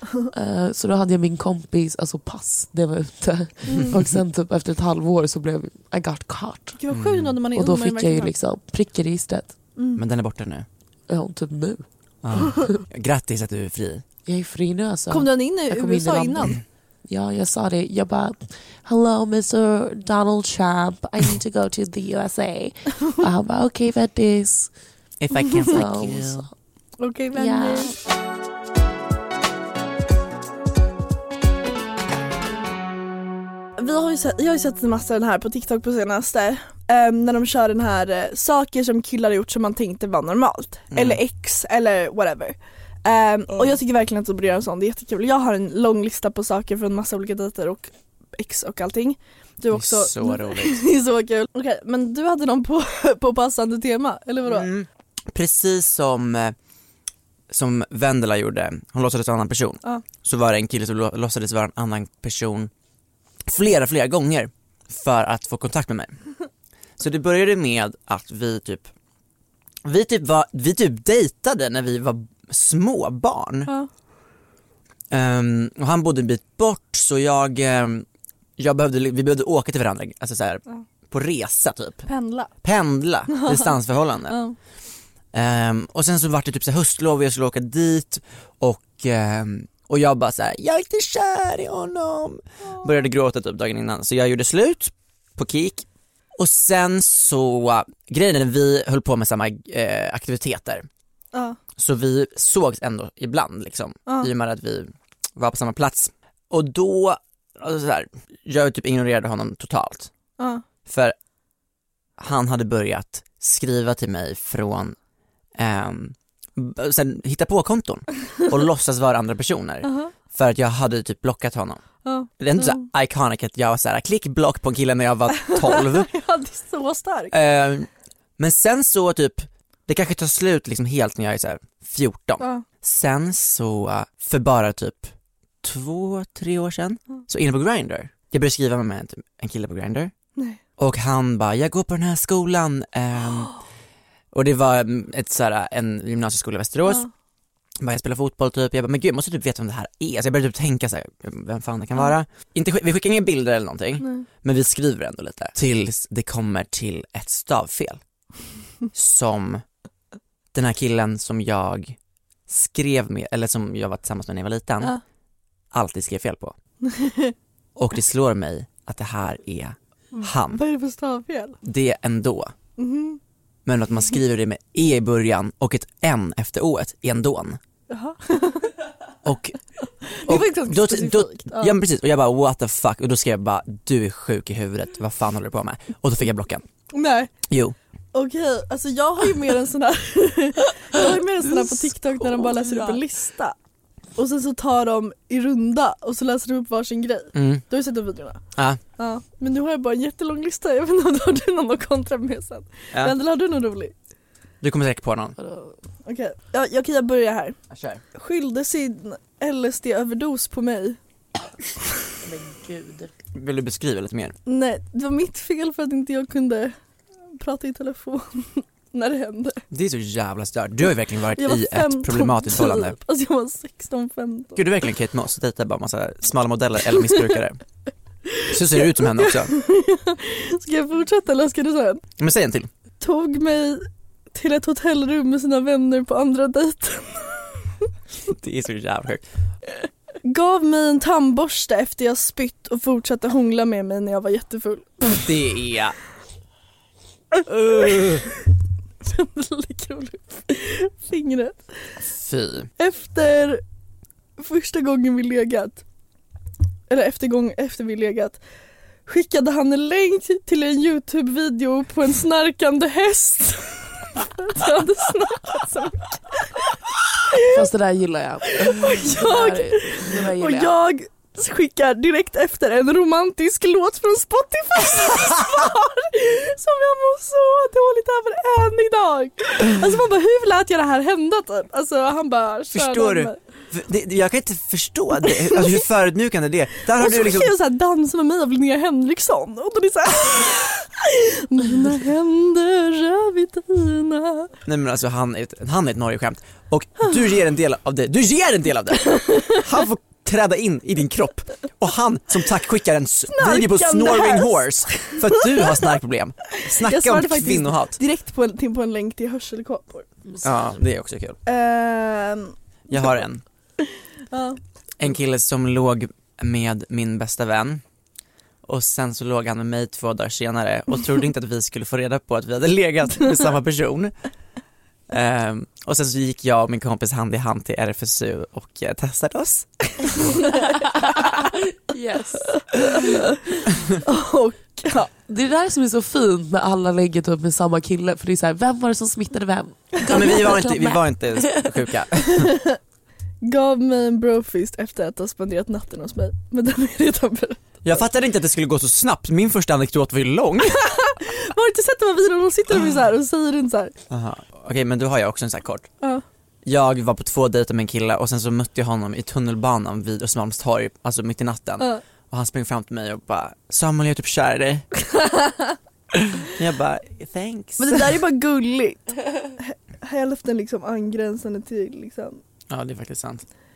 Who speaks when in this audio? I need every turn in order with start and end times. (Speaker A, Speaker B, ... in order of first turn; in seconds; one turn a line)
Speaker A: 0.3-6.8
Speaker B: 3.6-4.1
Speaker B: 6.8-8.3
Speaker C: 6.9-7.4
Speaker A: 7.5-9.6
Speaker B: 9.8-10.0
Speaker C: 9.9-10.7
Speaker A: 11.1-11.8
Speaker C: 12.2-14.0
Speaker A: 14.2-16.5
Speaker B: 15.1-16.6
Speaker A: 17.1-24.7
Speaker C: 25.2-26.4
Speaker B: 25.4-25.7
Speaker A: 25.6-26.5
Speaker B: 27.0-27.9
Speaker A: 27.4-27.9
Speaker B: 33.8-54.7
Speaker C: 40.9-41.2
Speaker C: 49.7-50.8
Speaker C: 54.4-56.5
Speaker C: 57.5-62.7
Speaker C: 63.5-66.2
Speaker C: 67.0-68.9
Speaker C: 69.8-73.7
Speaker C: 75.1-78.0
Speaker C: 78.6-82.1
Speaker B: 82.0-82.5
Speaker C: 82.6-84.4
Speaker B: 83.3-83.7
Speaker B: 84.3-84.5
Speaker C: 85.3-95.9
Speaker C: 96.4-100.9
Speaker B: 101.3-101.6
Speaker C: 101.8-110.1
Speaker B: 104.0-104.3
Speaker B: 110.4-110.6
Speaker C: 110.9-111.1
Speaker C: 112.2-115.0
Speaker C: 115.6-121.8
Speaker B: 119.8-120.1
Speaker B: 122.0-122.9
Speaker C: 122.4-126.1
Speaker B: 125.6-127.3
Speaker C: 127.3-140.1
Speaker B: 132.4-132.6
Speaker C: 140.8-143.5
Speaker C: 144.3-147.1
Speaker C: 147.8-158.0
Speaker C: 158.9-159.6
Speaker C: 160.5-161.9
Speaker C: 162.5-165.0
Speaker C: 165.7-166.5
Speaker B: 166.8-167.3
Speaker C: 167.8-170.6
Speaker B: 170.1-171.6
Speaker C: 171.6-172.5
Speaker B: 172.8-173.2
Speaker C: 173.7-177.6
Speaker B: 177.9-178.7
Speaker C: 179.2-179.6
Speaker B: 180.0-181.8
Speaker C: 180.2-186.6
Speaker B: 186.9-187.3
Speaker C: 187.5-187.8
Speaker B: 188.1-193.6
Speaker A: 191.4-193.0
Speaker B: 194.2-198.4
Speaker C: 197.3-197.6
Speaker C: 198.5-198.8
Speaker B: 199.0-203.9
Speaker C: 204.6-205.3
Speaker B: 206.0-207.6
Speaker C: 207.7-208.0
Speaker B: 208.1-211.0
Speaker A: 212.3-213.1
Speaker C: 213.3-214.3
Speaker B: 214.4-216.7
Speaker B: 217.3-219.6
Speaker C: 219.7-223.0
Speaker B: 221.3-224.6
Speaker C: 224.6-227.6
Speaker B: 228.3-232.0
Speaker C: 228.5-229.5
Speaker C: 232.2-232.7
Speaker B: 233.0-237.5
Speaker C: 238.3-239.2
Speaker B: 240.2-244.9
Speaker C: 245.1-245.9
Speaker C: 247.5-248.2
Speaker B: 249.0-251.6
Speaker C: 252.1-252.7
Speaker B: 252.8-253.6
Speaker B: 254.4-255.8
Speaker B: 256.9-258.4
Speaker B: 259.1-266.4
Speaker B: 267.3-267.7
Speaker A: 267.5-270.8
Speaker B: 268.4-283.4
Speaker C: 282.7-287.6
Speaker B: 285.2-285.8
Speaker B: 286.9-294.5
Speaker C: 294.6-308.0
Speaker B: 299.1-299.6
Speaker B: 303.3-305.8
Speaker B: 306.7-310.1
Speaker C: 310.4-311.4
Speaker B: 311.4-313.2
Speaker C: 312.9-313.4
Speaker B: 314.3-314.6
Speaker C: 315.0-317.8
Speaker C: 318.6-324.1
Speaker C: 325.1-329.9
Speaker A: 331.9-332.4
Speaker B: 332.6-333.4
Speaker B: 334.0-335.1
Speaker A: 335.2-341.8
Speaker C: 340.1-342.5
Speaker B: 342.3-342.8
Speaker B: 343.4-348.0
Speaker C: 347.8-350.9
Speaker B: 350.7-353.9
Speaker C: 354.1-355.9
Speaker C: 356.6-364.9
Speaker B: 365.1-365.8
Speaker C: 366.5-368.2
Speaker B: 367.8-372.4
Speaker C: 372.7-373.4